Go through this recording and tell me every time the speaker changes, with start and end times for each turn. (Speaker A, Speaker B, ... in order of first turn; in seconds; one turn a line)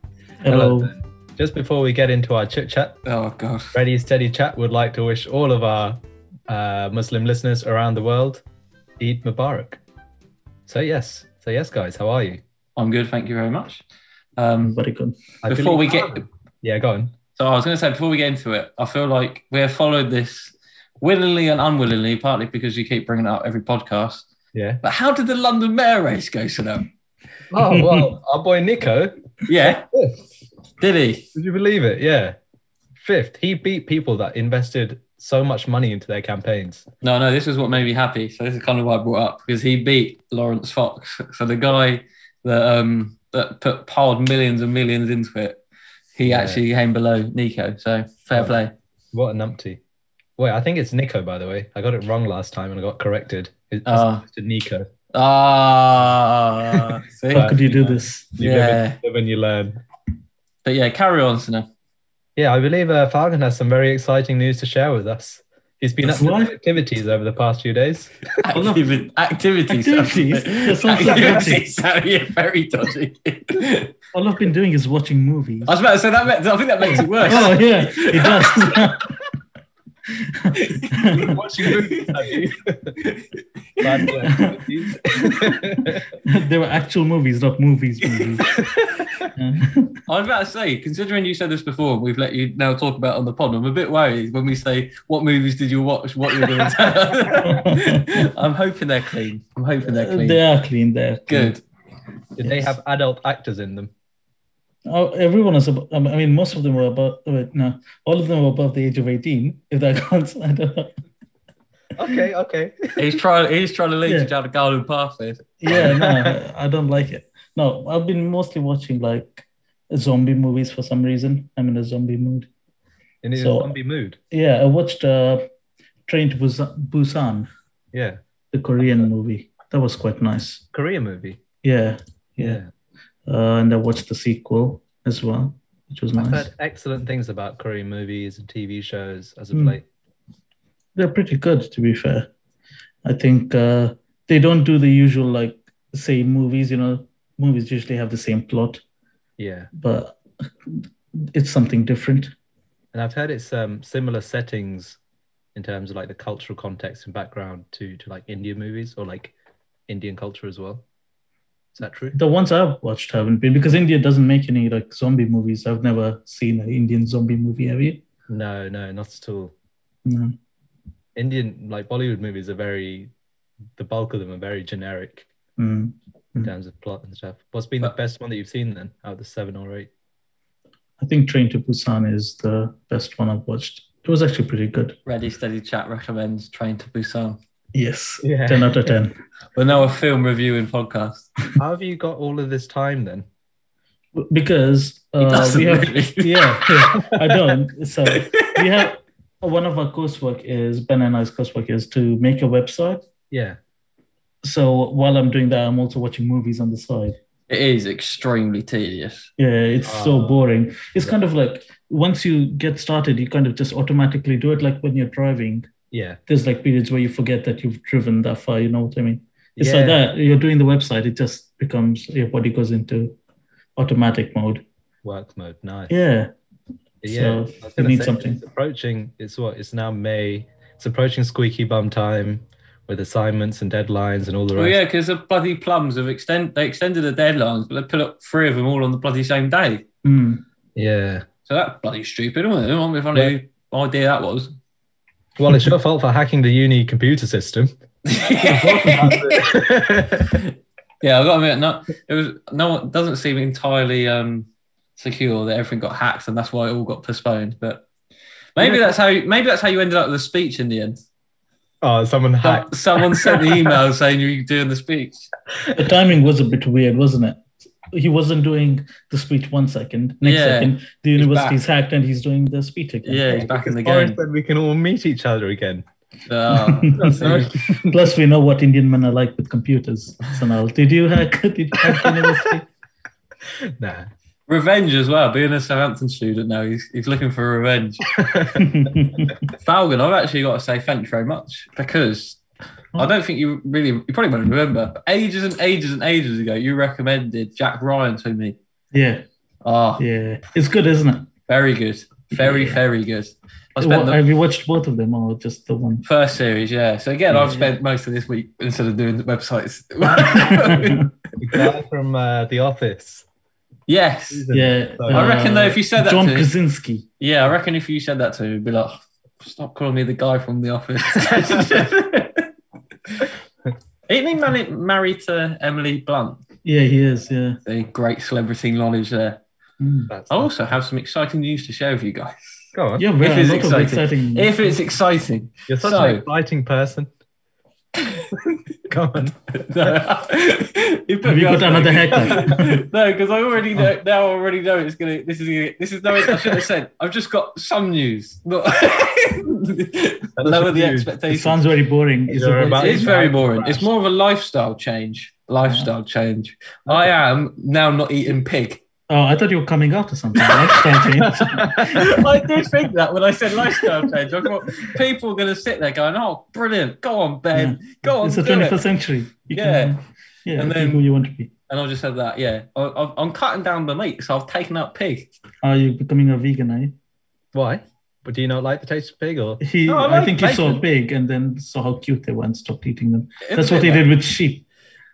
Speaker A: 0.4-0.9
Speaker B: 0.5-3.0
Speaker C: 3.0-3.8
Speaker B: 3.7-8.4
Speaker B: 9.0-9.8
Speaker B: 10.7-12.4
Speaker C: 12.8-13.8
Speaker C: 14.4-14.8
Speaker A: 14.6-15.2
Speaker B: 15.4-17.1
Speaker C: 15.5-16.2
Speaker C: 17.4-24.3
Speaker B: 24.5-24.8
Speaker C: 24.8-26.9
Speaker B: 27.5-30.2
Speaker A: 27.6-28.1
Speaker C: 29.5-29.9
Speaker C: 30.8-31.3
Speaker B: 31.4-32.4
Speaker B: 33.0-36.9
Speaker C: 37.0-45.6
Speaker C: 46.1-48.7
Speaker B: 46.2-46.6
Speaker B: 49.1-49.8
Speaker B: 50.4-54.9
Speaker C: 53.9-54.2
Speaker C: 55.1-59.0
Speaker B: 56.7-57.6
Speaker A: 57.3-58.3
Speaker B: 58.4-59.8
Speaker C: 60.6-61.7
Speaker B: 62.4-68.3
Speaker A: 66.0-66.6
Speaker C: 68.4-73.9
Speaker A: 68.5-68.9
Speaker A: 69.7-71.6
Speaker B: 71.0-71.6
Speaker A: 74.1-75.7
Speaker C: 75.7-79.1
Speaker A: 76.9-79.2
Speaker A: 80.2-81.4
Speaker C: 80.5-82.1
Speaker B: 81.2-83.0
Speaker C: 83.0-84.1
Speaker B: 83.8-86.1
Speaker A: 84.2-84.6
Speaker A: 85.1-88.5
Speaker B: 88.6-89.3
Speaker A: 89.3-90.0
Speaker C: 90.1-100.4
Speaker B: 96.5-96.9
Speaker A: 97.4-98.3
Speaker A: 99.9-101.5
Speaker C: 101.3-101.6
Speaker B: 102.4-103.9
Speaker A: 102.4-102.8
Speaker A: 104.9-110.9
Speaker B: 112.0-113.2
Speaker C: 113.0-115.5
Speaker A: 115.6-122.5
Speaker B: 115.7-116.4
Speaker B: 123.2-124.2
Speaker A: 123.4-123.7
Speaker A: 124.3-125.4
Speaker A: 126.1-127.5
Speaker B: 127.9-128.2
Speaker A: 128.5-130.6
Speaker B: 130.7-131.4
Speaker A: 131.6-132.6
Speaker B: 132.4-132.7
Speaker A: 133.3-136.5
Speaker B: 136.2-139.8
Speaker A: 140.9-142.3
Speaker A: 143.1-148.8
Speaker B: 149.4-149.7
Speaker A: 149.8-152.3
Speaker B: 152.9-155.0
Speaker B: 155.6-159.3
Speaker B: 159.9-160.8
Speaker B: 161.8-162.2
Speaker A: 162.1-168.0
Speaker B: 168.3-169.5
Speaker A: 170.1-170.3
Speaker B: 171.2-173.1
Speaker B: 173.8-175.3
Speaker A: 175.6-176.5
Speaker B: 176.4-179.9
Speaker A: 181.0-185.0
Speaker C: 185.1-187.4
Speaker A: 187.7-189.2
Speaker B: 188.2-188.9
Speaker C: 189.6-191.3
Speaker B: 191.6-193.3
Speaker A: 194.2-203.0
Speaker C: 195.2-196.9
Speaker C: 198.1-198.6
Speaker B: 203.3-203.6
Speaker A: 204.4-207.2
Speaker C: 207.5-209.3
Speaker A: 209.4-215.7
Speaker B: 209.8-210.4
Speaker B: 215.9-216.2
Speaker A: 216.3-223.2
Speaker B: 219.6-220.0
Speaker A: 223.8-224.6
Speaker B: 225.0-225.9
Speaker A: 225.9-226.3
Speaker B: 227.0-234.8
Speaker A: 227.0-228.4
Speaker C: 234.6-239.8
Speaker A: 240.0-240.4
Speaker B: 240.8-241.2
Speaker C: 241.5-244.5
Speaker B: 245.4-250.5
Speaker C: 248.1-249.6
Speaker C: 251.0-257.8
Speaker C: 258.6-261.0
Speaker B: 258.6-259.0
Speaker B: 261.8-263.8
Speaker C: 262.4-265.3
Speaker B: 265.6-265.9
Speaker A: 265.7-273.5
Speaker C: 270.2-271.6
Speaker C: 273.0-274.2
Speaker B: 273.4-275.9
Speaker C: 276.3-277.6
Speaker A: 276.5-282.7
Speaker B: 277.0-277.9
Speaker B: 281.9-282.5
Speaker B: 283.5-284.1
Speaker C: 284.5-288.0
Speaker B: 288.1-288.9
Speaker A: 288.6-289.5
Speaker C: 289.6-292.4
Speaker C: 293.0-298.6
Speaker A: 298.9-299.3
Speaker C: 299.6-300.0
Speaker A: 300.0-301.3
Speaker C: 301.5-304.2
Speaker A: 302.4-302.8
Speaker A: 303.8-306.1
Speaker C: 306.0-311.1
Speaker A: 307.3-307.7
Speaker A: 310.1-311.0
Speaker B: 311.4-313.3
Speaker C: 313.9-314.5
Speaker B: 314.3-315.3
Speaker A: 314.5-317.1
Speaker C: 315.1-316.5
Speaker C: 317.2-322.5
Speaker B: 321.3-321.6
Speaker C: 324.1-326.4
Speaker A: 326.6-327.6
Speaker C: 327.7-329.4
Speaker A: 329.8-330.1
Speaker B: 330.1-330.5
Speaker C: 330.3-332.7
Speaker B: 332.7-333.1
Speaker A: 333.0-334.8
Speaker C: 333.2-336.2
Speaker B: 335.7-337.1
Speaker B: 338.9-340.0
Speaker C: 339.5-351.6
Speaker A: 341.2-342.6
Speaker B: 342.4-342.6
Speaker B: 350.4-351.1
Speaker A: 351.3-353.1
Speaker B: 352.3-353.9
Speaker C: 352.7-358.8
Speaker B: 356.9-357.1
Speaker A: 359.1-362.5
Speaker C: 360.4-368.8
Speaker B: 361.2-362.1
Speaker A: 367.5-371.5
Speaker C: 369.5-369.9
Speaker C: 370.6-371.1
Speaker C: 371.7-375.3
Speaker A: 375.6-376.9
Speaker B: 377.5-380.8
Speaker A: 379.6-384.6
Speaker C: 379.9-380.4
Speaker C: 383.4-384.1